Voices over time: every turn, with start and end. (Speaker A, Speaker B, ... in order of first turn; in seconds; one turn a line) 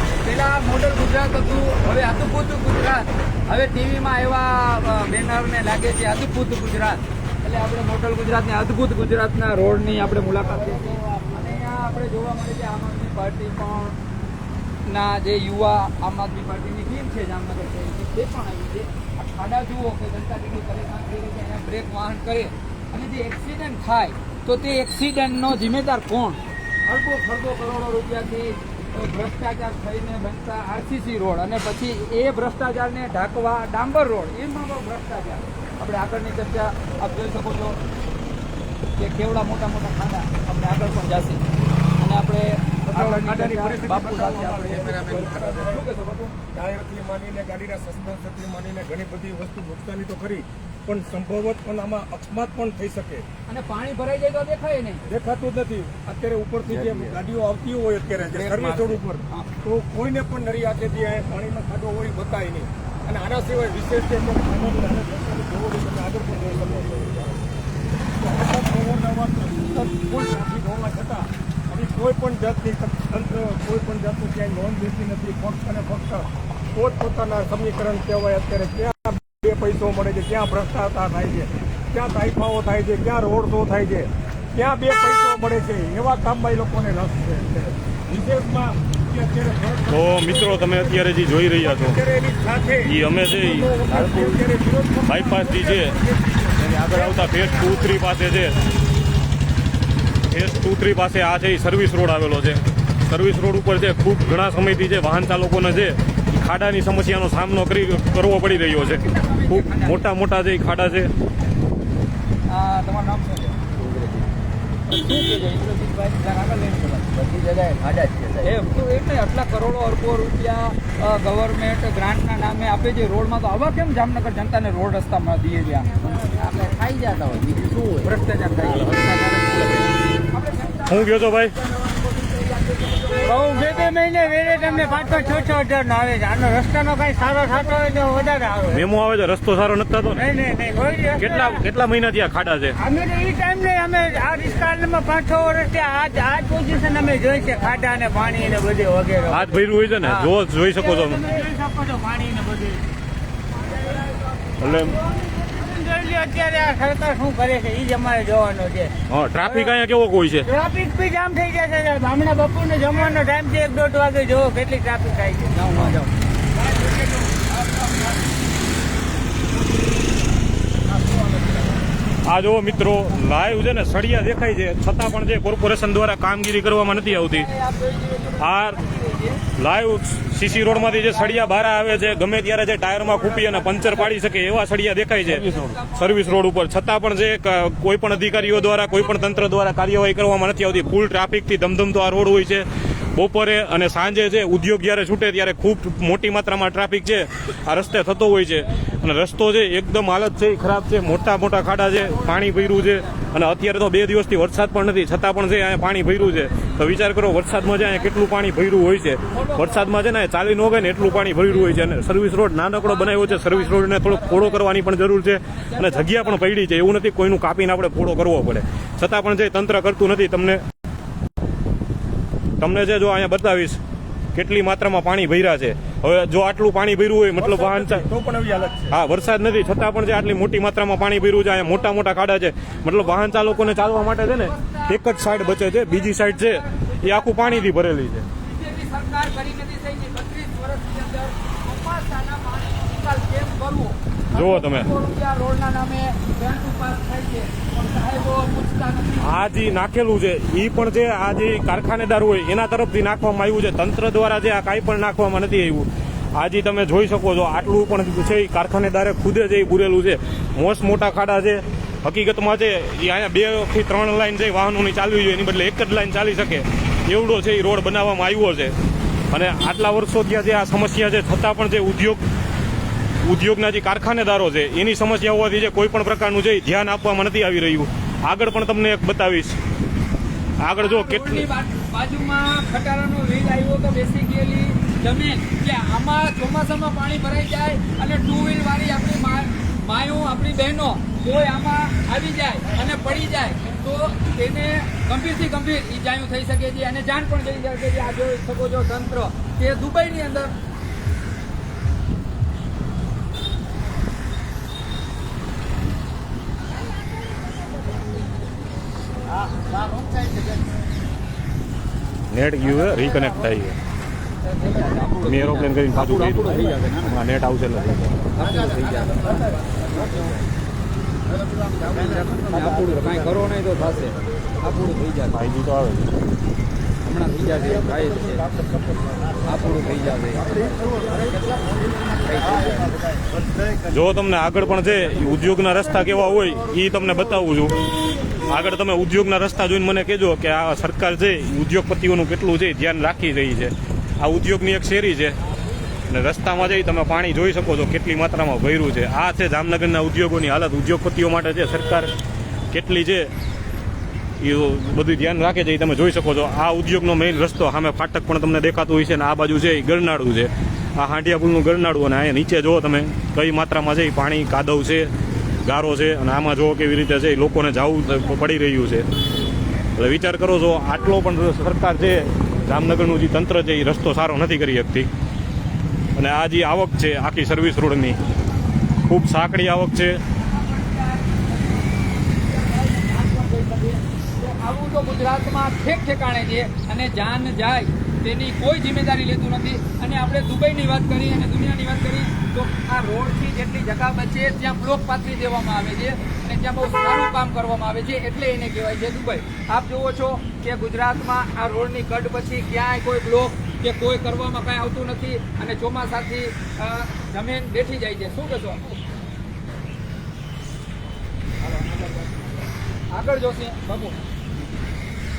Speaker A: 0.2-14.0
Speaker A: 14.8-37.8
Speaker A: 39.0-41.4
Speaker A: 42.0-46.4
Speaker B: 42.8-45.8
Speaker B: 46.5-53.2
Speaker A: 53.5-55.0
Speaker B: 55.1-67.5
Speaker C: 56.6-57.2
Speaker A: 58.3-59.5
Speaker B: 68.2-97.8
Speaker D: 89.9-92.0
Speaker D: 92.8-94.4
Speaker D: 95.0-96.0
Speaker D: 96.6-98.6
Speaker D: 100.3-111.1
Speaker A: 108.9-110.0
Speaker A: 112.5-113.6
Speaker C: 113.8-114.3
Speaker A: 114.9-117.1
Speaker C: 117.1-118.5
Speaker A: 118.4-126.0
Speaker C: 126.1-129.9
Speaker A: 128.0-129.0
Speaker A: 130.3-135.6
Speaker D: 130.9-131.5
Speaker E: 133.2-138.8
Speaker D: 138.7-140.2
Speaker E: 140.1-141.6
Speaker D: 141.1-142.8
Speaker E: 142.8-150.3
Speaker D: 149.3-151.2
Speaker E: 150.9-152.8
Speaker D: 154.6-155.0
Speaker E: 155.2-158.9
Speaker D: 159.1-160.5
Speaker E: 160.4-165.6
Speaker A: 165.5-166.1
Speaker D: 172.2-177.5
Speaker A: 176.9-179.4
Speaker D: 178.4-178.8
Speaker D: 179.6-220.6
Speaker A: 180.7-181.8
Speaker A: 183.2-184.1
Speaker A: 185.2-186.4
Speaker A: 202.3-203.0
Speaker A: 206.5-206.8
Speaker A: 207.6-208.4
Speaker A: 209.3-210.0
Speaker A: 210.9-211.8
Speaker A: 212.7-214.7
Speaker A: 215.5-216.4
Speaker D: 222.6-223.8
Speaker D: 224.3-228.1
Speaker B: 227.4-228.9
Speaker D: 228.9-238.2
Speaker A: 233.6-237.7
Speaker A: 238.4-249.3
Speaker D: 244.3-244.9
Speaker D: 249.2-268.7
Speaker D: 269.3-272.2
Speaker D: 273.2-279.6
Speaker D: 280.6-281.5
Speaker A: 280.8-300.5
Speaker D: 312.3-313.8
Speaker A: 314.4-317.1
Speaker D: 315.2-318.3
Speaker C: 316.7-317.2
Speaker A: 318.4-320.4
Speaker A: 321.9-325.4
Speaker D: 325.3-326.1
Speaker A: 327.0-328.5
Speaker A: 329.4-330.7
Speaker A: 332.1-333.0
Speaker D: 333.9-337.7
Speaker D: 338.5-345.4
Speaker D: 346.1-352.1
Speaker D: 352.7-353.3
Speaker D: 354.4-365.1
Speaker D: 365.6-369.1
Speaker D: 369.9-375.1
Speaker D: 376.1-378.2
Speaker D: 379.0-380.2
Speaker A: 380.4-409.0
Speaker A: 413.1-414.2